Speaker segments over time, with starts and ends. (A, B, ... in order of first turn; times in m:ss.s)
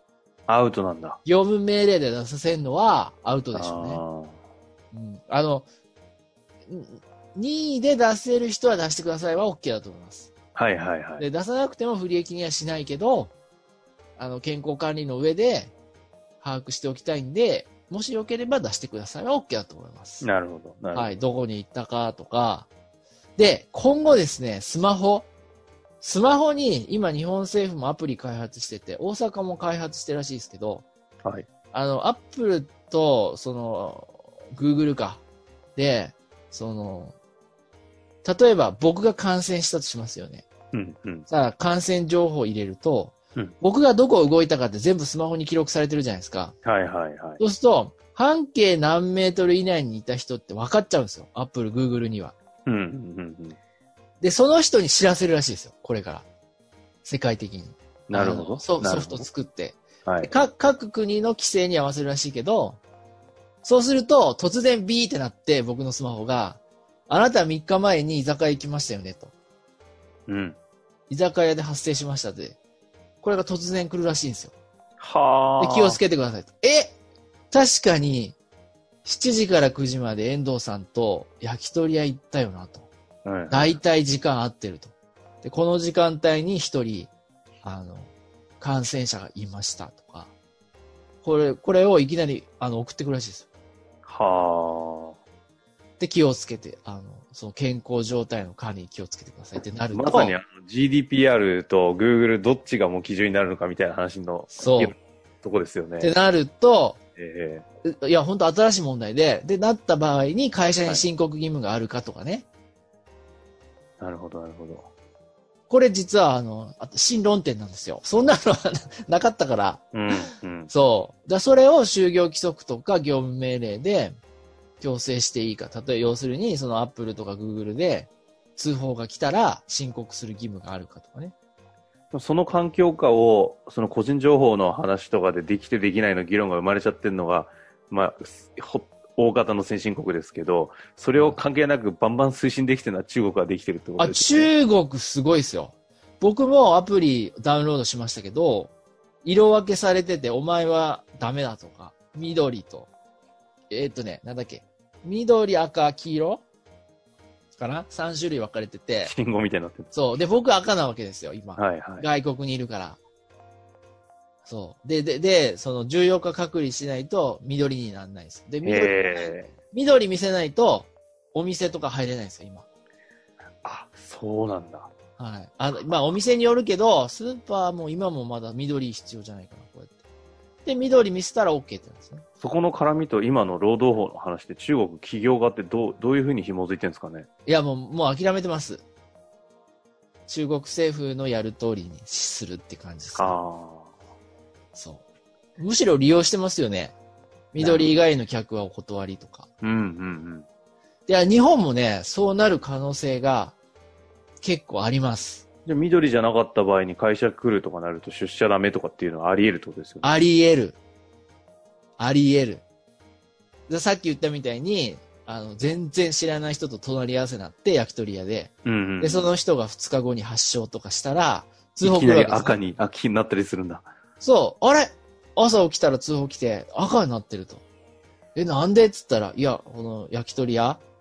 0:00.5-0:01.2 A
0:01.2-0:04.0 B
0:03.5-0:04.4 A
0:04.9-0:05.7 B
0:06.7-0:10.3 B
0:10.5-0:11.2 A
0:11.2-0:13.3 B
0:14.2-0:15.7 B
0:16.4-0:20.3 B
0:20.2-0:21.2 A
0:20.9-0:22.7 B
0:23.4-0:25.3 B
0:26.0-0:30.8 B
0:31.7-0:35.2 B
0:35.7-0:37.1 B
0:38.2-0:40.4 B
0:40.7-0:41.2 A
0:41.3-0:46.6 B
0:46.6-0:47.4 A
0:47.4-0:52.4 B
0:52.6-0:53.6 A
0:54.2-0:56.3 B
0:57.0-1:02.8 B
0:58.1-0:59.3 A
1:00.0-1:00.3 A
1:03.6-1:09.3 B
1:10.3-1:10.6 A
1:11.1-1:12.6 B
1:13.2-1:14.6 B
1:15.0-1:16.0 A
1:15.6-1:17.0 B
1:17.5-1:18.4 B
1:19.0-1:22.9 B
1:23.2-1:23.8 A
1:23.5-1:27.1 B
1:27.6-1:30.3 B
1:31.2-1:33.5 B
1:34.0-1:35.1 A
1:36.0-1:40.4 B
1:39.9-1:46.1 A
1:44.5-1:44.9 B
1:46.0-1:47.0 B
1:47.2-1:47.6 A
1:47.8-1:52.5 B
1:54.0-1:54.9 A
1:55.7-1:59.9 B
1:59.9-2:00.7 A
2:00.7-2:04.2 B
2:04.8-2:11.3 B
2:12.1-2:24.5 A
2:21.1-2:21.4 B
2:24.0-2:28.7 B
2:29.2-2:32.9 B
2:33.7-2:36.4 B
2:37.5-2:39.1 B
2:39.0-2:39.9 A
2:39.9-2:43.0 B
2:41.6-2:42.1 A
2:44.4-2:52.6 B
2:48.6-2:49.5 A
2:53.6-2:54.9 A
2:55.2-3:00.0 B
3:00.6-3:02.2 B
3:02.4-3:07.3 A
3:07.4-3:08.8 B
3:10.3-3:13.4 B
3:13.1-3:13.9 A
3:14.7-3:15.0 B
3:15.6-3:17.0 B
3:17.5-3:19.5 B
3:17.6-3:17.9 A
3:19.6-3:20.4 A
3:21.1-3:23.6 B
3:24.4-3:25.4 B
3:25.6-3:30.1 A
3:30.0-3:30.8 B
3:32.0-3:32.6 B
3:33.7-3:42.6 B
3:38.6-3:39.3 A
3:41.8-3:43.9 A
3:44.2-3:47.6 B
3:48.3-3:50.8 B